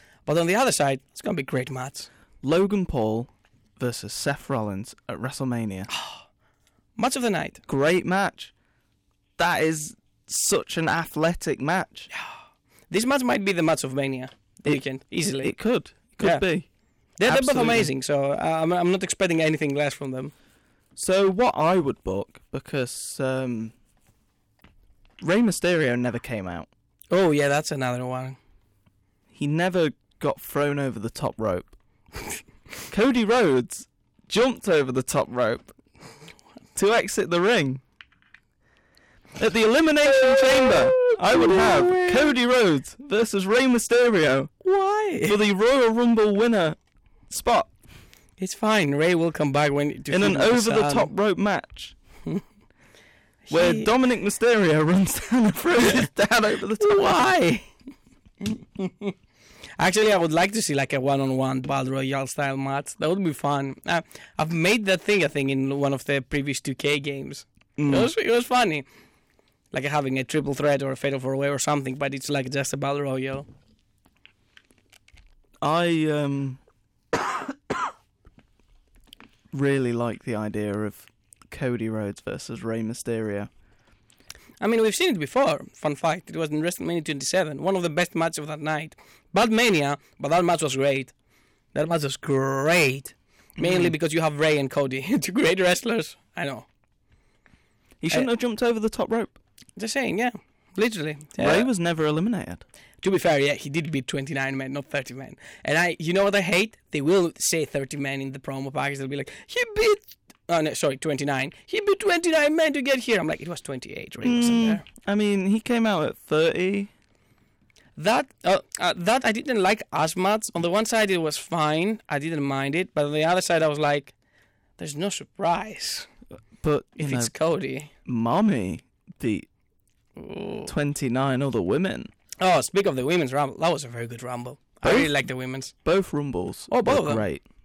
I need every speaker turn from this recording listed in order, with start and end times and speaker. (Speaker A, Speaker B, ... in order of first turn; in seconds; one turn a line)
Speaker A: 0.2-2.1
Speaker B: 2.4-5.9
Speaker A: 5.9-6.2
Speaker A: 7.0-7.6
Speaker B: 7.7-8.5
Speaker B: 9.4-12.1
Speaker A: 12.9-15.5
Speaker B: 15.4-16.7
Speaker A: 16.2-16.4
Speaker A: 17.2-20.3
Speaker B: 17.2-17.9
Speaker B: 20.9-23.7
Speaker B: 25.2-26.7
Speaker A: 27.1-28.4
Speaker B: 29.3-31.7
Speaker B: 32.9-35.7
Speaker B: 36.8-37.8
Speaker B: 39.4-44.5
Speaker A: 40.0-42.3
Speaker A: 44.6-45.4
Speaker B: 45.2-46.8
Speaker B: 47.3-47.7
Speaker A: 48.4-51.1
Speaker B: 50.1-51.9
Speaker A: 53.4-53.9
Speaker B: 53.5-57.2
Speaker A: 56.8-57.7
Speaker A: 58.4-59.1
Speaker A: 59.8-68.8
Speaker B: 67.8-68.1
Speaker A: 69.7-73.5
Speaker B: 75.6-76.6
Speaker B: 79.5-83.5
Speaker A: 84.6-91.1
Speaker A: 91.7-96.7
Speaker B: 93.6-93.9
Speaker B: 98.0-99.4
Speaker A: 99.8-101.7
Speaker B: 101.4-102.6
Speaker A: 103.0-114.8
Speaker B: 114.2-116.9
Speaker A: 118.0-124.1
Speaker A: 124.8-126.1
Speaker B: 126.6-127.3
Speaker A: 127.0-127.9
Speaker B: 128.1-129.5
Speaker A: 130.2-130.7
Speaker B: 130.7-132.1
Speaker A: 132.4-135.7
Speaker B: 134.8-135.1
Speaker B: 135.8-137.4
Speaker A: 136.7-137.2